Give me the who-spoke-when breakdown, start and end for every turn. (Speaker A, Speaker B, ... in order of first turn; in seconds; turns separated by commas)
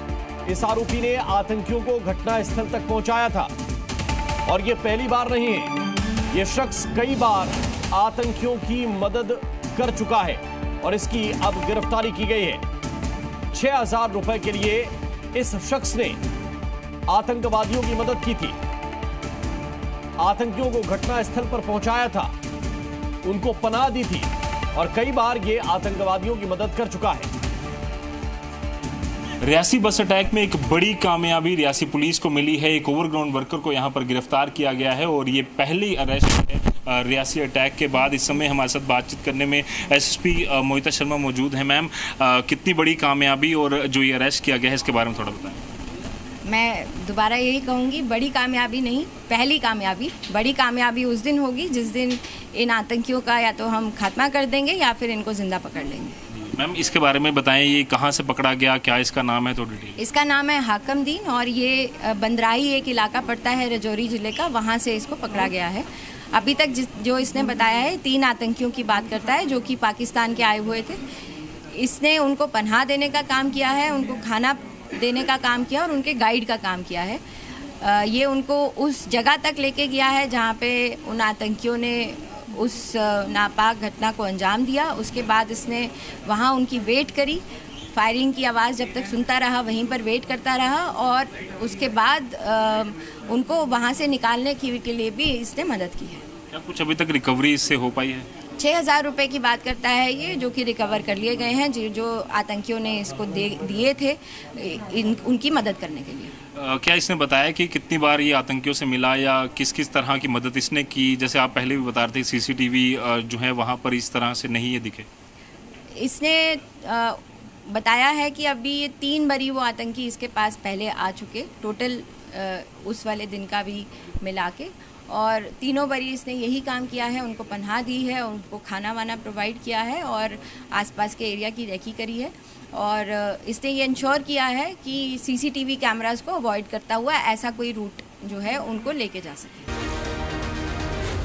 Speaker A: 0.5-3.5, Speaker A: 4.5-5.7, Speaker A: 6.3-12.6, Speaker A: 13.5-16.2, Speaker A: 17.1-18.6, Speaker A: 20.2-22.3, Speaker A: 23.2-27.3, Speaker B: 29.4-45.6, Speaker C: 46.5-56.2, Speaker B: 56.5-60.0, Speaker C: 60.0-71.0, Speaker C: 71.7-77.2, Speaker C: 77.8-96.2, Speaker B: 96.5-98.3, Speaker C: 98.6-106.3, Speaker B: 106.5-115.1, Speaker C: 116.0-139.7